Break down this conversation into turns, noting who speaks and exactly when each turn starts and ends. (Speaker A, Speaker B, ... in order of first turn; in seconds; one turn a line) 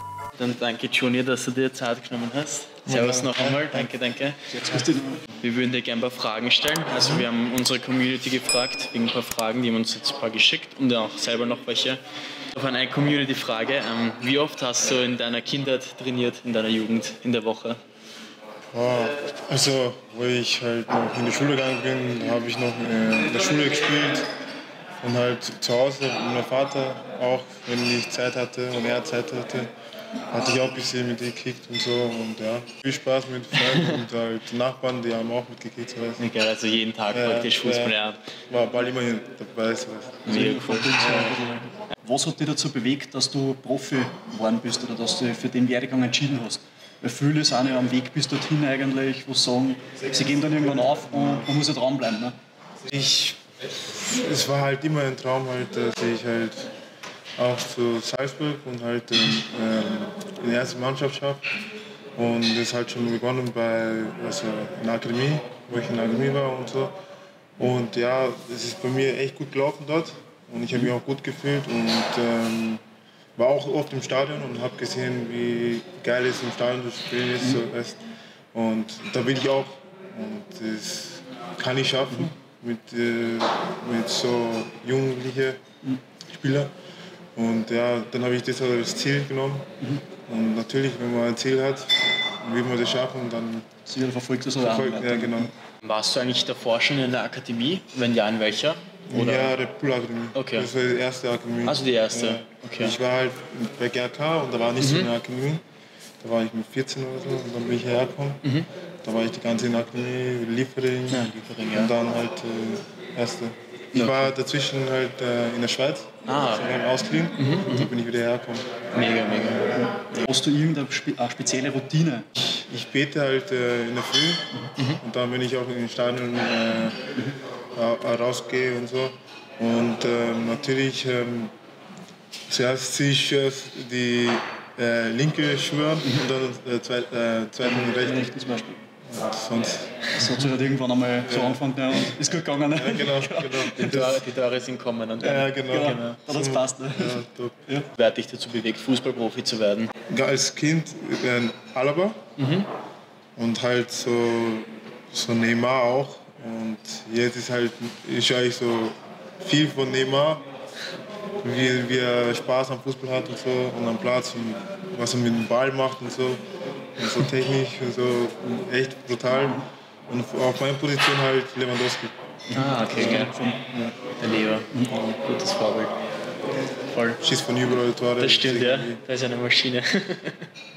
Speaker A: 0.3-4.5
Speaker B: 2.8-3.9
Speaker C: 4.5-5.2
Speaker A: 5.4-12.0
Speaker A: 12.5-17.8
Speaker B: 18.7-24.3
Speaker B: 25.0-29.7
Speaker B: 30.3-36.2
Speaker A: 33.6-34.0
Speaker A: 36.2-38.2
Speaker B: 37.1-38.0
Speaker B: 38.5-41.4
Speaker A: 40.2-41.3
Speaker C: 40.2-52.4
Speaker B: 50.3-51.5
Speaker B: 52.8-56.7
Speaker B: 57.4-61.4
Speaker B: 62.1-67.0
Speaker B: 67.6-72.8
Speaker B: 73.3-78.0
Speaker B: 78.5-85.6
Speaker B: 86.3-86.7
Speaker B: 87.3-89.7
Speaker B: 90.3-93.7
Speaker C: 93.8-95.5
Speaker B: 94.6-95.5
Speaker A: 95.8-99.5
Speaker B: 99.1-105.6
Speaker A: 100.3-100.7
Speaker A: 101.6-103.0
Speaker A: 104.8-105.1
Speaker B: 106.2-108.4
Speaker A: 108.4-108.7
Speaker B: 109.0-118.7
Speaker A: 111.1-111.9
Speaker A: 113.9-114.3
Speaker A: 116.2-116.7
Speaker A: 117.4-117.9
Speaker A: 118.9-120.3
Speaker C: 119.8-122.2
Speaker B: 122.4-124.5
Speaker B: 125.0-127.0
Speaker B: 127.7-131.5
Speaker B: 132.5-138.3
Speaker C: 137.6-138.8
Speaker B: 139.1-140.2
Speaker C: 140.1-143.9
Speaker B: 141.2-141.9
Speaker B: 142.7-144.2
Speaker A: 143.7-146.2
Speaker B: 145.2-147.6
Speaker C: 145.5-147.9
Speaker A: 147.9-149.9
Speaker B: 150.1-152.2
Speaker A: 152.4-152.7
Speaker B: 153.3-160.4
Speaker B: 161.4-166.4
Speaker B: 167.0-172.1
Speaker C: 172.5-173.6
Speaker A: 172.5-173.4
Speaker A: 174.1-175.9
Speaker A: 176.9-177.2
Speaker B: 177.2-179.0
Speaker A: 178.2-180.5